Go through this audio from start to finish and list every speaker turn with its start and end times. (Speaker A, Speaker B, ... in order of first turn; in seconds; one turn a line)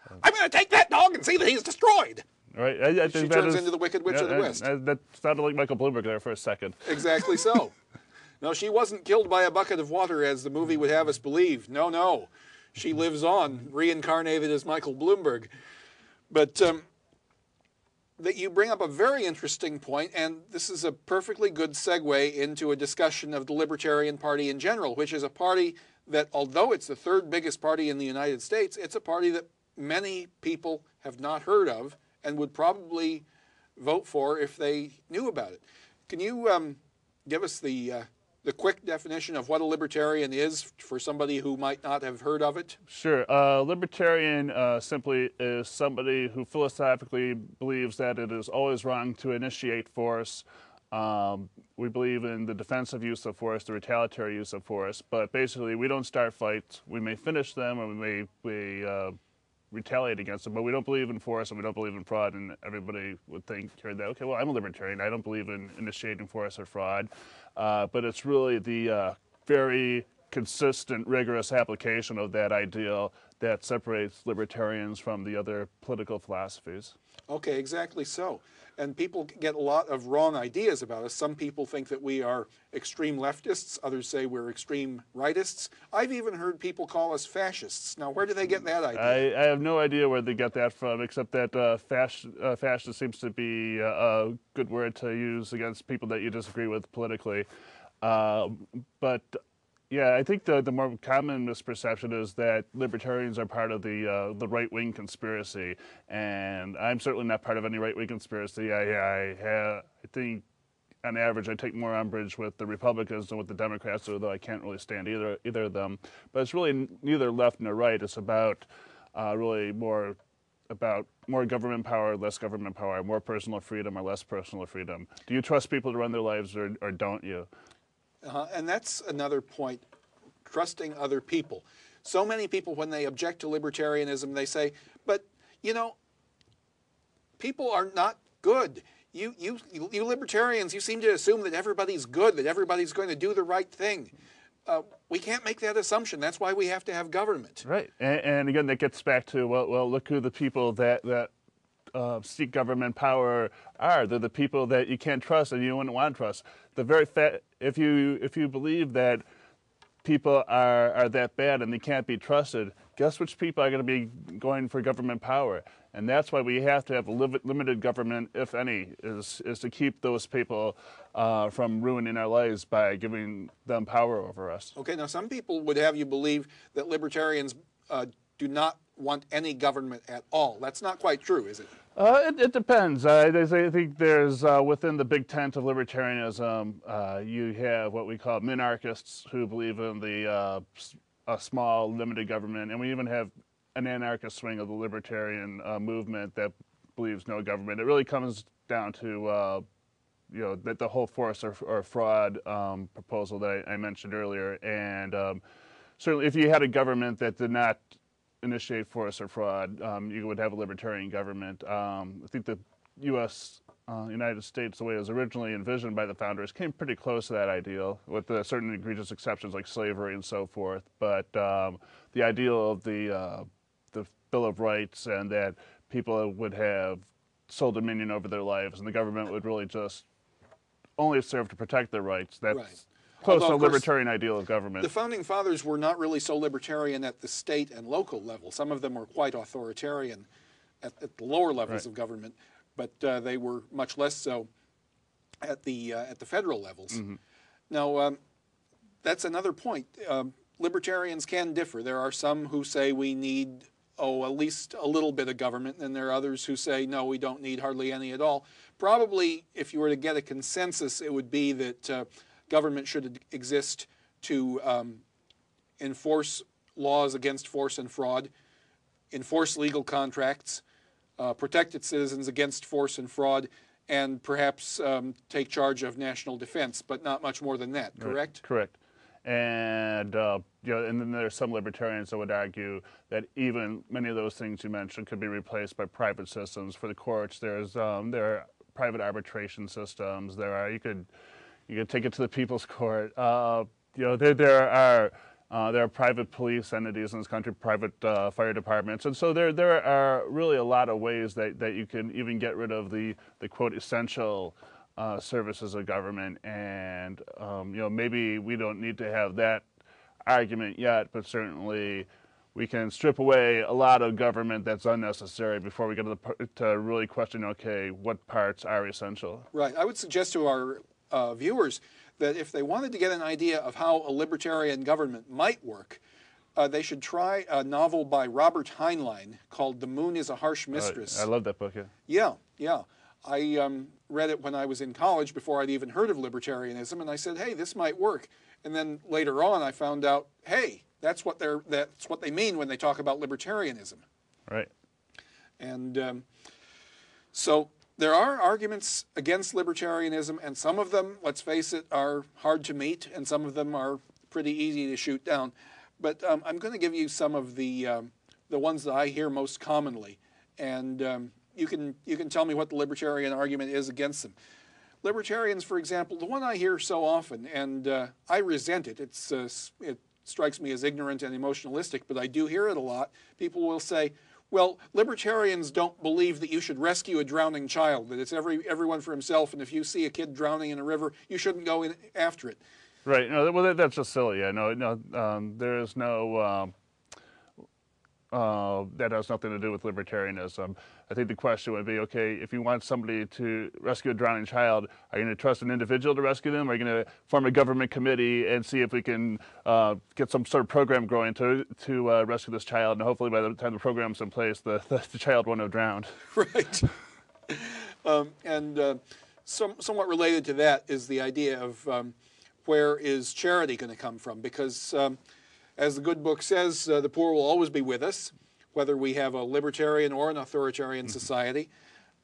Speaker A: 0.2-2.2
Speaker B: 2.5-6.9
Speaker A: 3.0-4.6
Speaker A: 6.8-7.7
Speaker A: 8.4-15.5
Speaker A: 16.3-16.9
Speaker A: 18.2-33.2
Speaker A: 33.8-42.8
Speaker B: 42.9-59.2
Speaker B: 59.7-77.0
Speaker A: 77.3-89.2
Speaker B: 89.0-97.5
Speaker B: 98.0-110.5
Speaker B: 111.0-120.2
Speaker B: 120.7-127.5
Speaker A: 128.2-129.8
Speaker A: 130.4-136.0
Speaker A: 137.4-144.1
Speaker A: 144.7-147.7
Speaker B: 147.6-151.3
Speaker B: 151.9-159.2
Speaker B: 160.0-174.7
Speaker A: 174.8-181.7
Speaker B: 182.0-199.6
Speaker B: 200.3-205.4
Speaker B: 206.0-207.9
Speaker B: 208.4-230.1
Speaker B: 231.0-234.9
Speaker A: 232.5-233.9
Speaker A: 234.8-240.3
Speaker A: 240.8-244.5
Speaker A: 245.4-247.1
Speaker A: 247.7-248.2
Speaker A: 249.0-265.0
Speaker A: 265.8-268.3
Speaker A: 269.1-270.6
Speaker A: 271.2-278.4
Speaker B: 278.0-291.1
Speaker B: 291.7-309.7
Speaker B: 310.2-319.5
Speaker A: 319.5-326.0
Speaker A: 326.6-331.3
Speaker B: 330.7-331.9
Speaker A: 332.1-344.0
Speaker A: 345.6-346.3
Speaker A: 347.3-364.4
Speaker A: 365.0-382.6
Speaker B: 383.1-386.7
Speaker B: 388.3-406.1
Speaker A: 406.3-406.9
Speaker A: 407.5-415.2
Speaker A: 415.8-421.7